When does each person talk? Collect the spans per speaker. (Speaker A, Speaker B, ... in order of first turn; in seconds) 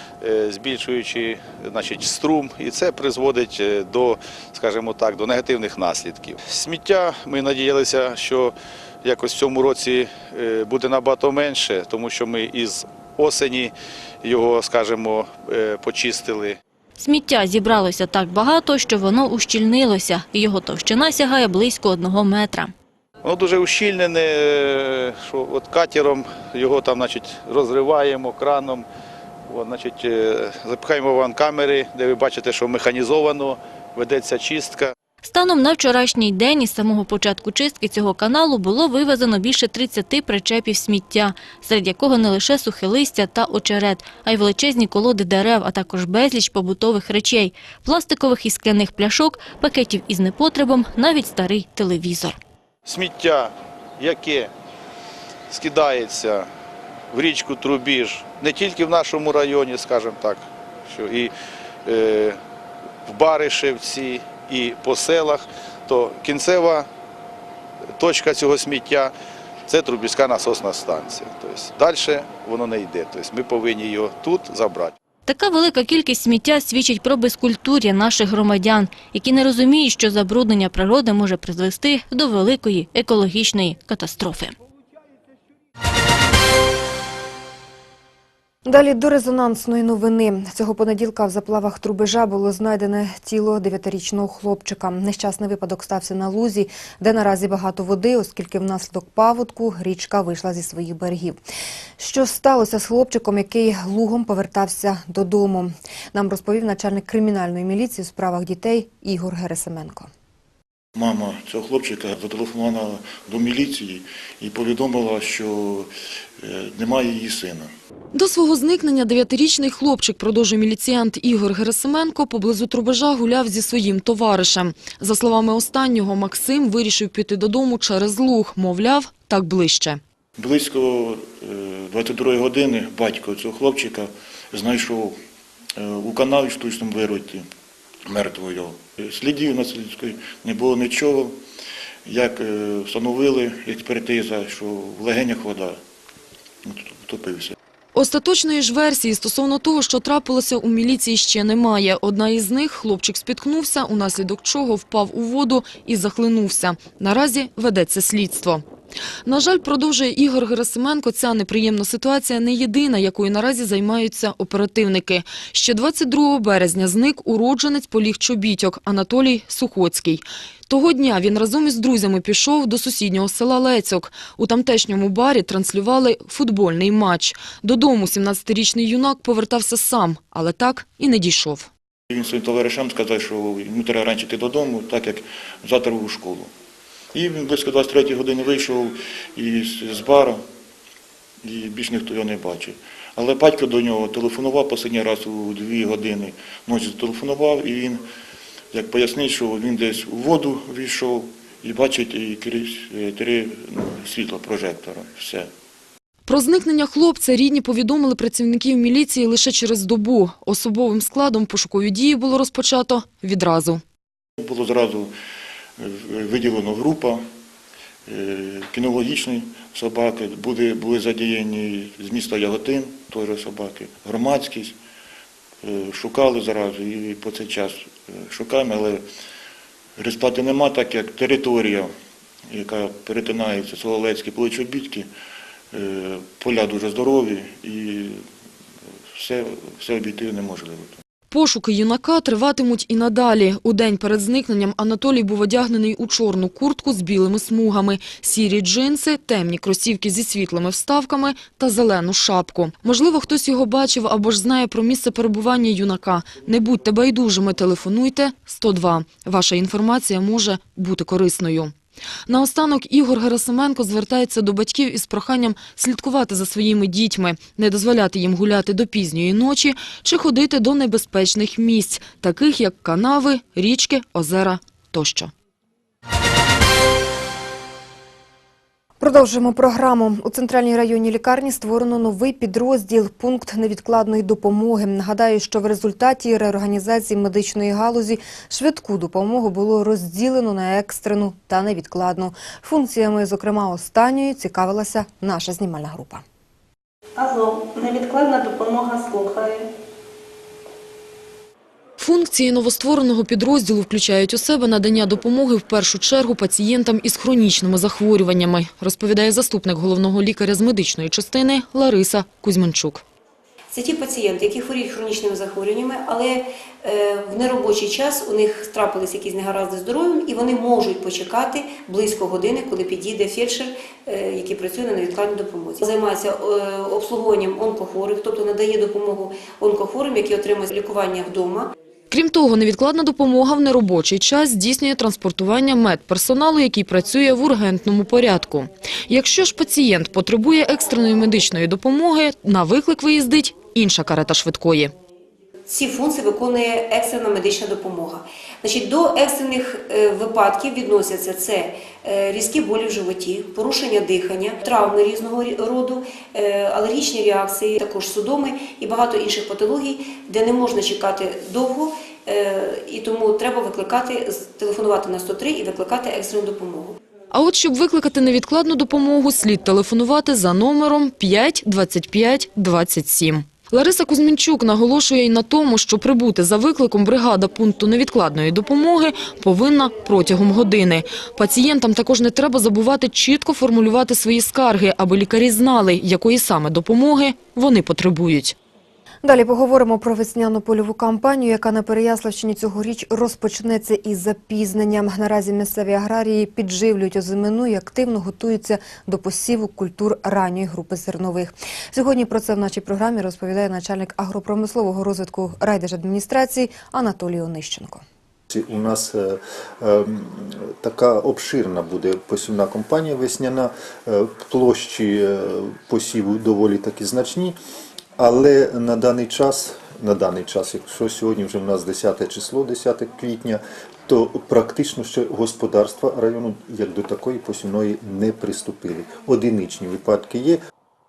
Speaker A: 0.2-16.6, 23.2-28.9, 29.5-34.9, 52.9-54.5, 55.5-56.5, 57.1-61.3, 61.9-62.4, 63.1-66.9, 68.0-69.1, 69.7-75.0
Speaker B: 17.0-22.7, 35.2-52.4, 75.3-84.5
Speaker C: 88.7-101.4, 102.0-110.1, 279.0-296.2, 389.2-408.0
Speaker D: 111.0-117.7, 130.4-135.2, 135.8-137.5, 138.1-141.4, 142.1-145.8, 146.6-147.6, 182.1-186.5, 187.1-190.4, 191.4-198.0, 198.7-205.5, 214.4-215.1, 215.8-217.2, 218.1-224.8, 225.6-229.1, 230.0-231.9, 232.5-235.1, 235.7-238.2, 239.1-241.0
Speaker E: 118.1-130.0, 147.9-158.6, 159.3-181.7, 206.3-213.8, 241.3-261.7, 262.3-275.3, 302.0-313.0, 332.1-344.9, 367.3-388.6
Speaker F: 297.2-299.7
Speaker G: 313.7-331.7, 345.7-367.0
Speaker H: 408.5-417.6, 418.2-430.6